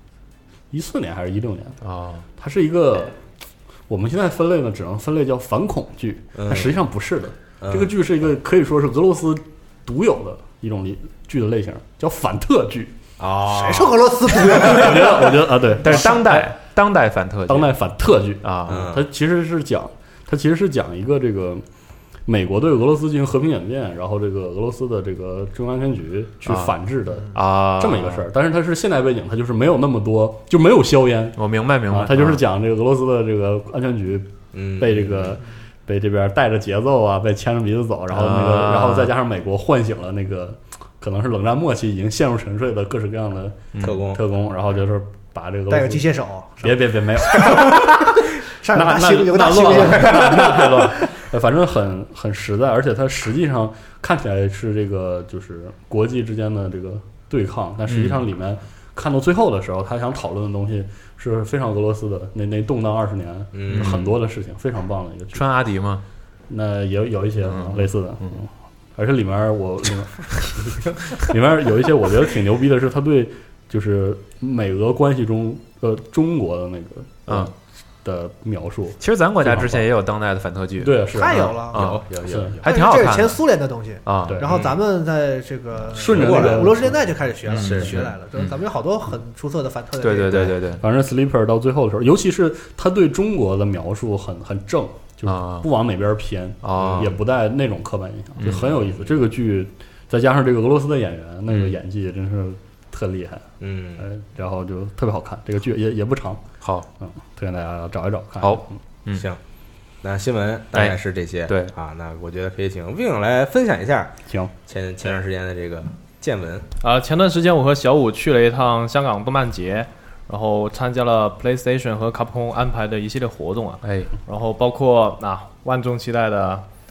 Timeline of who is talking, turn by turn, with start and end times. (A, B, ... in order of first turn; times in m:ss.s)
0:00.7-0:01.8 A
0:01.8-0:02.2 B
0:02.4-0:03.2 A
0:03.9-0:12.9 A
0:06.3-0:06.8 C
0:07.6-0:07.9 C
0:13.2-0:14.9 C
0:13.5-0:16.2 D
0:14.5-0:16.5 A
0:15.8-0:17.7 B
0:17.5-0:21.6 A
0:18.4-0:18.9 B
0:18.7-0:19.0 C
0:22.2-0:31.4 A
0:26.4-0:26.8 B
0:27.3-0:28.2 B
0:31.4-0:32.4 B
0:31.9-0:46.1 A
0:34.5-0:35.4 C
0:38.1-0:39.1 B
0:43.7-0:44.0 B
0:43.8-0:44.2 C
0:45.7-0:46.8 D
0:46.6-0:47.8 A
0:47.4-0:51.0 D
0:48.7-1:05.4 A
0:49.8-0:50.4 C
0:57.9-0:58.2 B
1:03.5-1:04.0 C
1:03.7-1:04.1 B
1:05.3-1:06.0 B
1:06.5-1:17.5 A
1:07.4-1:08.4 B
1:18.0-1:19.9 A
1:19.0-1:22.0 B
1:20.8-1:21.7 A
1:21.1-1:21.8 D
1:21.7-1:22.6 C
1:22.2-1:22.6 A
1:22.6-1:23.4 B
1:22.6-1:30.5 D
1:24.0-1:24.4 B
1:24.3-1:24.6 A
1:24.4-1:24.8 C
1:25.9-1:27.0 A
1:26.0-1:26.8 C
1:27.5-1:28.1 C
1:27.5-1:28.6 B
1:30.0-1:30.8 B
1:30.8-1:46.4 A
1:35.2-1:35.7 B
1:36.6-1:37.1 B
1:36.8-1:37.1 C
1:38.4-1:38.7 B
1:41.5-1:41.8 B
1:43.6-1:44.0 C
1:46.6-1:46.8 B
1:47.0-1:48.8 A
1:48.4-1:49.2 B
1:50.0-1:56.7 C
1:50.7-1:51.7 B
1:54.3-1:54.5 A
1:56.8-2:06.6 E
2:03.8-2:04.1 B